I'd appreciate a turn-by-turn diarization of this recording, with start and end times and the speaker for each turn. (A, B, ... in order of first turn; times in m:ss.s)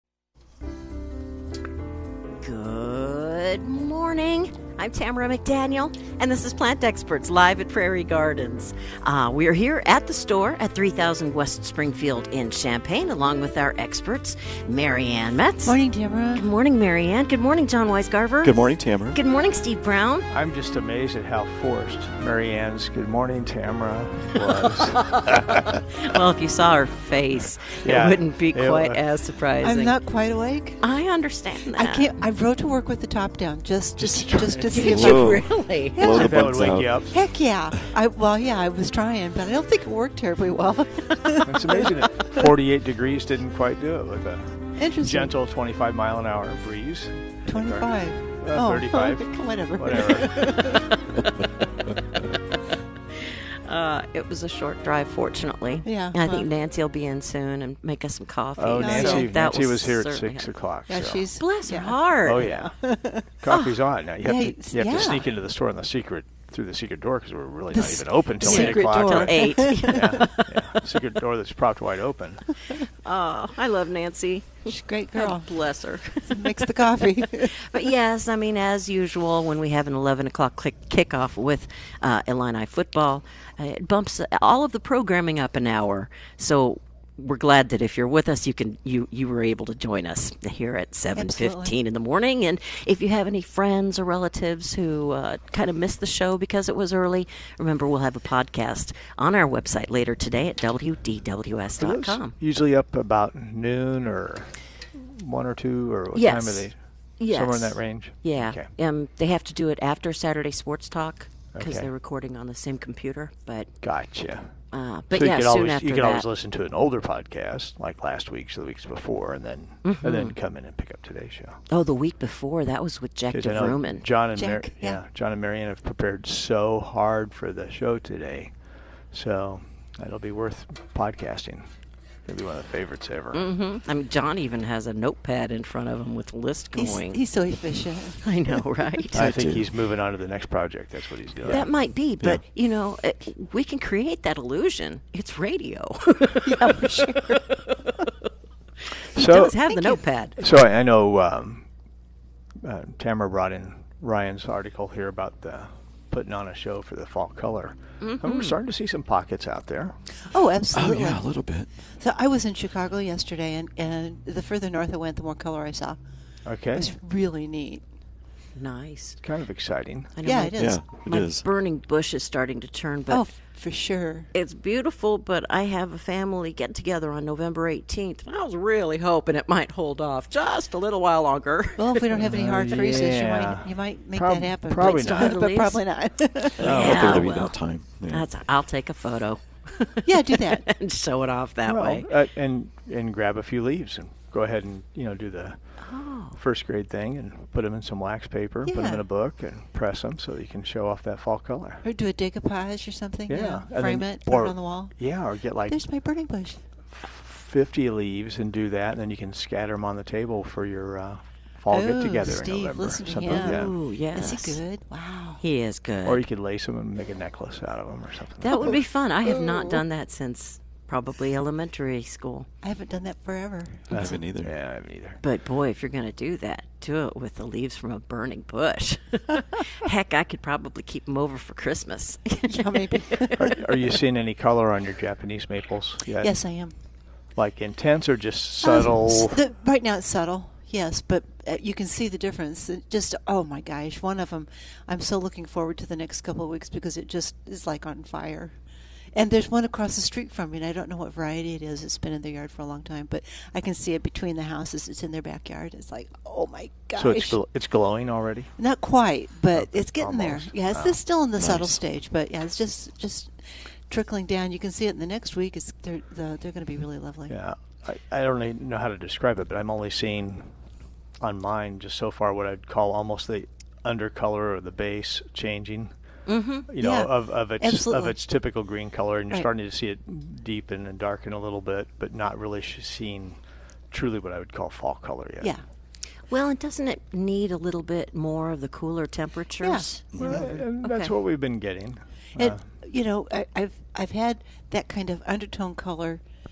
0:02.4-0:15.8 A
0:15.6-0:16.4 B
0:16.4-0:18.6 A
0:18.4-0:19.2 C
0:19.1-0:20.3 A
0:20.3-0:25.6 D
0:24.6-0:30.0 A
0:27.8-0:29.0 D
0:29.6-0:30.8 B
0:30.8-0:32.3 A
0:31.7-0:35.2 B
0:34.0-0:35.0 D
0:34.7-0:36.0 A
0:34.8-0:37.1 C
0:35.9-0:36.3 B
0:36.1-0:37.1 D
0:37.1-0:42.4 B
0:41.4-0:50.4 D
0:44.8-0:45.3 B
0:47.5-0:50.9 B
0:50.5-0:51.5 A
0:53.2-1:00.5 A
0:55.8-0:56.5 B
0:58.6-1:01.3 D
0:58.8-0:59.3 B
1:00.9-1:03.4 B
1:01.4-1:02.6 A
1:02.2-1:02.7 D
1:03.4-1:12.4 D
1:04.2-1:05.3 B
1:07.7-1:10.4 B
1:08.4-1:10.3 A
1:13.0-1:42.3 A
1:14.6-1:15.5 B
1:16.2-1:17.7 B
1:31.2-1:31.7 B
1:41.8-1:48.7 D
1:46.1-1:53.7 A
1:51.5-1:51.9 D
1:53.8-1:54.5 D
1:54.7-1:56.2 A
1:55.1-2:01.6 D
1:59.8-2:00.4 A
2:01.7-2:04.0 A
2:03.3-2:08.5 D
2:04.3-2:05.0 B
2:09.1-2:11.7 D
2:12.2-2:13.5 D
2:13.3-2:17.2 A
2:16.8-2:18.2 B
2:18.2-2:19.2 A
2:19.1-2:21.7 D
2:19.1-2:19.7 C
2:21.4-2:28.1 A
2:26.4-2:27.6 B
2:29.1-2:30.4 A
2:29.1-2:29.6 D
2:29.7-2:30.0 B
2:30.4-2:31.6 D
2:32.6-2:40.0 D
2:38.0-2:38.6 A
2:40.3-2:41.2 B
2:40.7-2:41.7 C
2:42.0-2:46.0 B
2:46.4-2:46.9 D
2:46.7-2:47.8 B
2:48.6-2:49.2 A
2:49.2-2:50.1 D
2:50.2-2:53.2 A
2:50.2-2:50.8 B
2:50.6-2:51.4 C
2:53.1-2:54.3 B
2:54.3-3:02.0 A
3:01.8-3:06.8 B
3:02.2-3:05.4 D
3:04.8-3:05.8 A
3:06.6-3:07.2 D
3:06.6-3:07.6 A
3:06.6-3:08.2 C
3:08.1-3:12.1 A
3:10.0-3:10.6 B
3:11.6-3:15.6 D
3:15.8-3:16.4 A
3:16.4-3:21.8 D
3:18.6-3:19.0 B
3:21.8-3:25.0 B
3:23.3-3:25.8 D
3:25.7-3:26.6 B
3:26.9-3:33.7 D
3:31.7-3:35.4 B
3:33.3-3:34.6 A
3:35.4-3:36.2 A
3:36.0-3:38.8 D
3:38.4-3:42.5 A
3:42.6-3:44.2 B
3:43.9-3:44.5 C
3:43.9-3:45.2 D
3:45.2-3:53.3 A
3:52.5-3:53.6 B
3:53.4-3:56.3 D
3:56.2-3:56.7 B
3:57.4-3:59.4 D
3:58.6-4:08.5 B
4:09.1-4:17.4 B
4:17.0-4:18.5 D
4:18.6-4:27.3 B
4:19.5-4:21.0 D
4:21.4-4:21.8 C
4:27.3-4:30.5 D
4:31.2-4:35.9 D
4:36.3-4:36.7 A
4:36.7-4:43.4 D
4:36.8-4:38.2 B
4:43.9-4:45.5 D
4:46.3-4:50.3 A
4:49.6-4:50.4 B
4:50.2-4:52.6 D
4:50.8-4:51.1 A
4:52.4-4:56.2 B